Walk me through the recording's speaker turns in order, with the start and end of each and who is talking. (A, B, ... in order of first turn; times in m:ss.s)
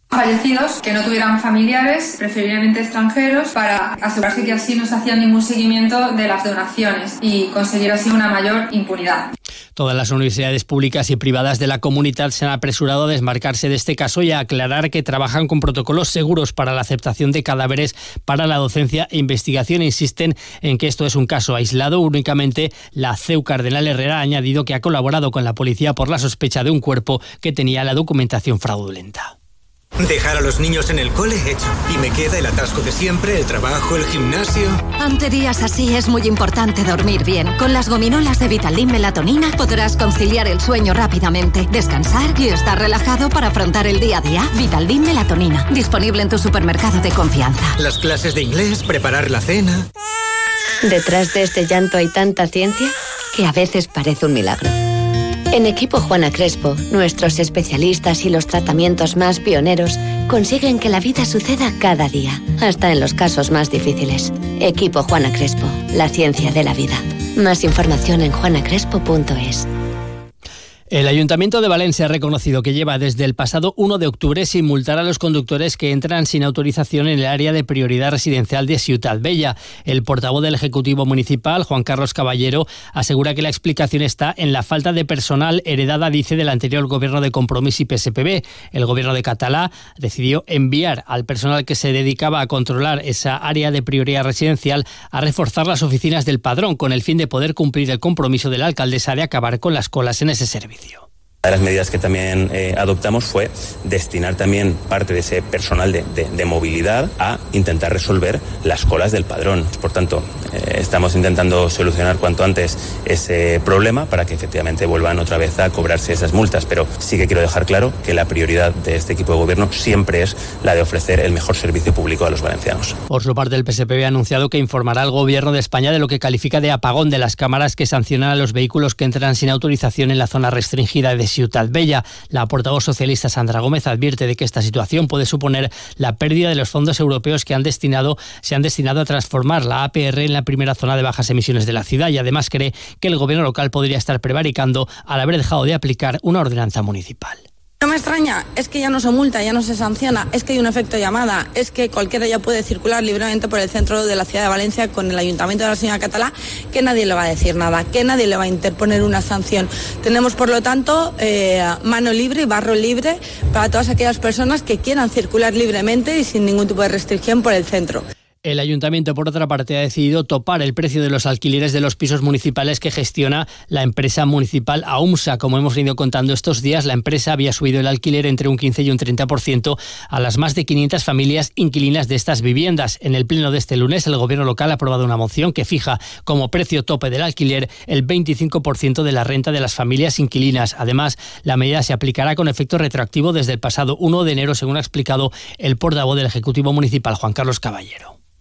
0:00.1-0:09.3 A
0:09.8-0:29.3 B
0:30.0-0:34.9 C
0:35.0-0:47.7 D
0:47.8-0:49.9 C
0:50.8-0:54.7 E
0:55.5-1:09.7 E
1:10.9-1:41.0 B
1:41.4-2:03.0 F
2:03.1-2:27.4 B
2:27.8-2:48.0 G
2:48.4-3:18.1 B